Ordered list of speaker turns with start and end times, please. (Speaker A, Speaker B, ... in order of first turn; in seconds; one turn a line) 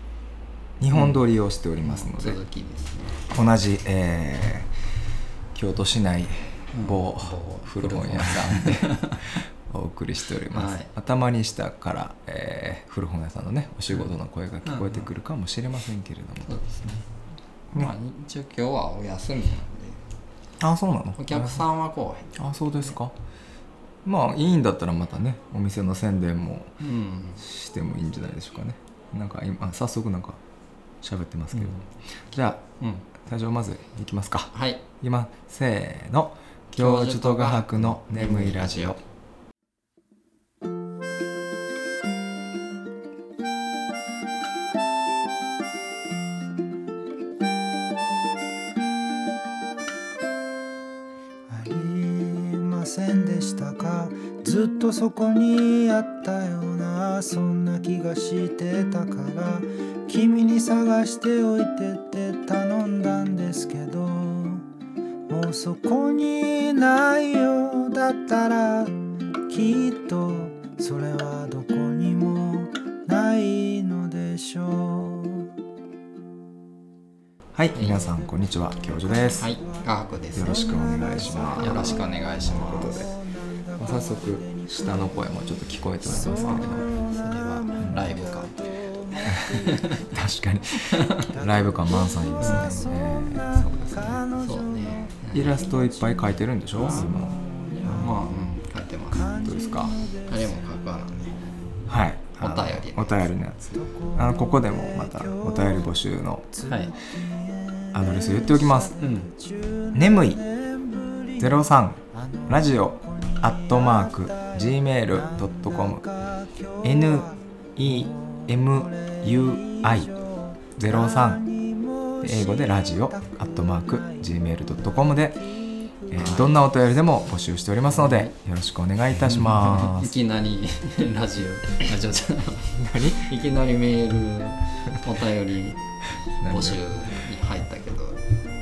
Speaker A: 0.8-2.4
Speaker B: 1.8-3.2
Speaker A: 3.3-4.7
Speaker A: 5.5-16.5
Speaker B: 6.7-9.4
Speaker B: 10.5-10.9
Speaker B: 14.6-15.1
Speaker B: 16.5-17.0
Speaker B: 17.7-20.0
Speaker A: 20.6-21.6
Speaker B: 21.2-22.9
Speaker A: 22.4-23.1
Speaker A: 24.0-26.8
Speaker B: 26.8-27.4
Speaker A: 27.4-30.4
Speaker A: 31.0-32.6
Speaker B: 31.5-31.8
Speaker A: 33.2-39.0
Speaker B: 34.5-34.8
Speaker B: 36.7-39.0
Speaker C: 51.5-64.6
Speaker C: 65.3-75.5
Speaker A: 77.5-79.6
Speaker B: 77.7-78.1
Speaker C: 77.9-90.0
Speaker B: 79.4-80.8
Speaker A: 80.3-83.1
Speaker B: 81.5-83.1
Speaker A: 83.8-86.9
Speaker B: 86.1-88.5
Speaker B: 89.6-90.1
Speaker A: 90.1-94.2
Speaker B: 90.8-91.3
Speaker C: 91.2-98.3
Speaker B: 92.4-92.8
Speaker B: 94.4-95.6
Speaker A: 95.3-98.2
Speaker B: 96.7-99.4
Speaker C: 99.1-101.4
Speaker A: 99.3-99.9
Speaker B: 100.2-101.5
Speaker A: 101.9-106.5
Speaker B: 102.4-103.3
Speaker C: 103.8-106.0
Speaker C: 106.5-111.6
Speaker B: 106.7-106.9
Speaker A: 107.9-108.9
Speaker B: 109.0-109.3
Speaker A: 109.9-110.4
Speaker A: 111.4-116.0
Speaker C: 112.1-127.1
Speaker A: 116.8-120.1
Speaker A: 120.8-121.4
Speaker A: 122.2-125.4
Speaker A: 126.1-130.1
Speaker B: 126.2-126.4
Speaker B: 127.9-128.3
Speaker B: 129.2-135.8
Speaker A: 132.8-133.3
Speaker A: 136.4-136.8
Speaker B: 136.4-138.2